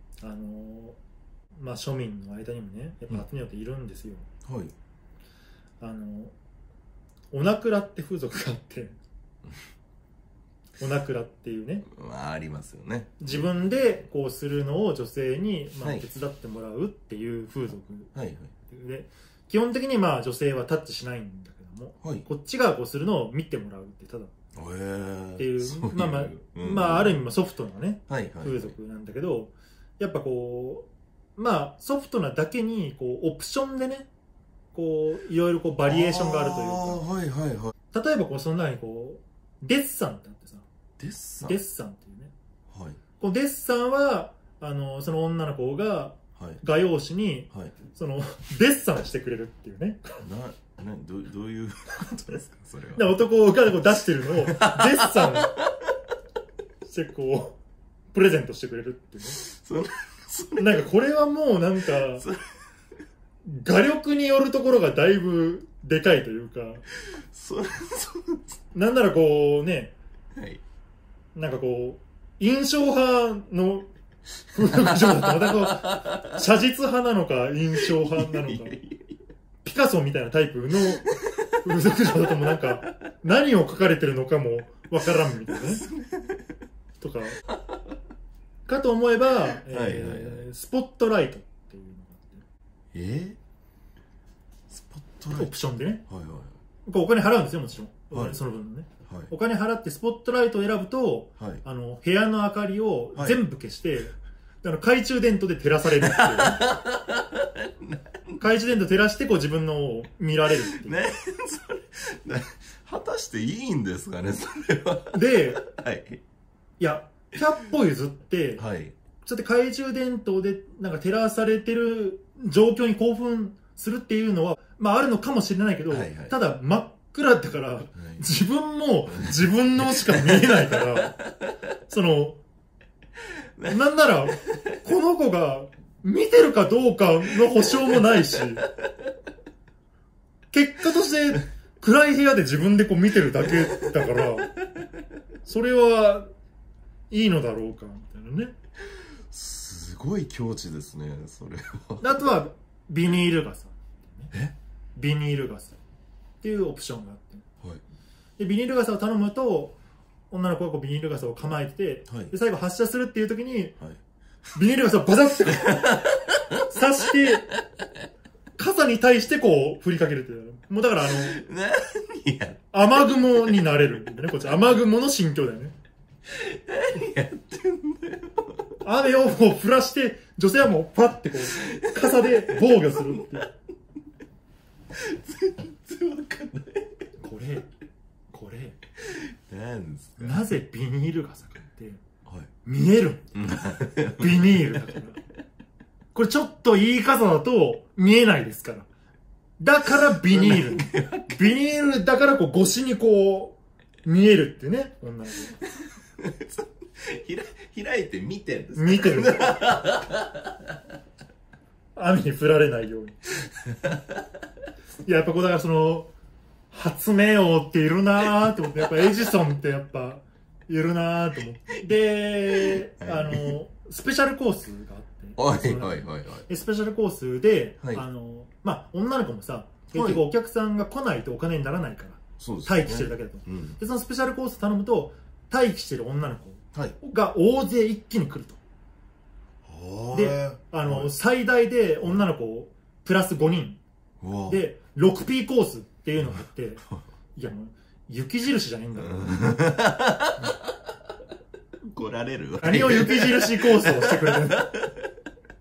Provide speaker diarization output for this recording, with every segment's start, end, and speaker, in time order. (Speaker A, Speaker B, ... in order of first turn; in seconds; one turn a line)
Speaker A: 0.2-1.0
Speaker A: 1.6-4.3
Speaker B: 4.5-4.7
Speaker A: 5.8-6.3
Speaker A: 7.3-9.0
Speaker A: 10.8-11.9
Speaker B: 11.9-13.8
Speaker A: 13.2-18.1
Speaker B: 15.8-16.1
Speaker B: 18.1-18.5
Speaker A: 18.7-24.3
Speaker B: 24.5-27.2
Speaker A: 25.4-34.1
Speaker B: 28.1-28.7
Speaker A: 34.7-37.0
Speaker B: 35.9-37.7
Speaker A: 37.9-40.7
Speaker B: 41.0-41.6
Speaker A: 41.4-42.3
Speaker B: 42.7-43.0
Speaker A: 43.2-50.2
Speaker B: 50.2-53.2
Speaker A: 52.9-55.5
Speaker B: 54.3-55.7
Speaker A: 56.8-57.6
Speaker A: 58.1-59.4
Speaker B: 59.4-60.9
Speaker A: 60.6-62.3
Speaker B: 62.0-62.4
Speaker A: 63.4-66.8
Speaker B: 67.1-68.6
Speaker A: 68.7-70.0
Speaker B: 70.3-70.6
Speaker A: 71.3-73.9
Speaker A: 74.5-78.8
Speaker B: 74.5-76.4
Speaker B: 77.9-79.1
Speaker A: 79.7-81.1
Speaker A: 81.6-85.9
Speaker B: 85.5-86.5
Speaker A: 87.0-87.4
Speaker A: 88.7-92.4
Speaker B: 89.6-90.5
Speaker B: 92.9-93.4
Speaker B: 94.7-95.5
Speaker A: 95.3-96.0
Speaker B: 96.1-96.6
Speaker A: 96.9-106.7
Speaker B: 98.1-98.4
Speaker B: 99.1-99.3
Speaker B: 103.2-103.4
Speaker B: 106.0-108.4
Speaker A: 108.4-111.1
Speaker B: 110.7-116.2
Speaker A: 115.1-115.6
Speaker A: 116.8-118.6
Speaker B: 118.6-119.0
Speaker A: 119.2-131.2
Speaker B: 125.9-126.3
Speaker B: 128.0-128.3
Speaker B: 129.1-131.5
Speaker A: 131.9-132.4
Speaker B: 133.6-133.8
Speaker A: 133.7-138.7
Speaker B: 134.4-134.7
Speaker A: 140.5-144.6
Speaker A: 145.4-146.3
Speaker A: 147.1-148.6
Speaker B: 149.3-152.2
Speaker A: 152.0-154.3
Speaker A: 154.9-155.8
Speaker A: 156.4-157.4
Speaker A: 158.4-159.8
Speaker A: 160.3-163.8
Speaker A: 164.6-165.9
Speaker B: 165.5-166.8
Speaker A: 166.7-167.5
Speaker A: 168.6-171.4
Speaker B: 171.1-172.6
Speaker A: 172.7-175.8
Speaker B: 176.3-178.8
Speaker A: 178.8-183.5
Speaker B: 181.6-183.4
Speaker B: 184.9-187.0
Speaker A: 187.2-187.7
Speaker A: 188.3-188.8
Speaker B: 189.0-190.4
Speaker A: 190.2-192.0
Speaker A: 192.7-193.5
Speaker B: 193.3-195.0
Speaker A: 194.1-195.2
Speaker A: 196.1-198.9
Speaker A: 199.6-205.6
Speaker B: 200.1-201.4
Speaker B: 206.2-210.7
Speaker A: 208.7-209.6
Speaker A: 212.0-213.2
Speaker B: 213.6-214.2
Speaker A: 215.0-216.1
Speaker A: 216.7-238.6
Speaker B: 222.6-223.6
Speaker B: 225.4-226.4
Speaker B: 229.9-230.2
Speaker B: 232.4-233.8
Speaker B: 239.7-241.1
Speaker A: 240.1-243.8
Speaker B: 244.2-244.6
Speaker A: 244.5-246.8
Speaker A: 247.4-249.4
Speaker B: 249.1-250.7
Speaker B: 251.9-255.1
Speaker A: 252.6-254.7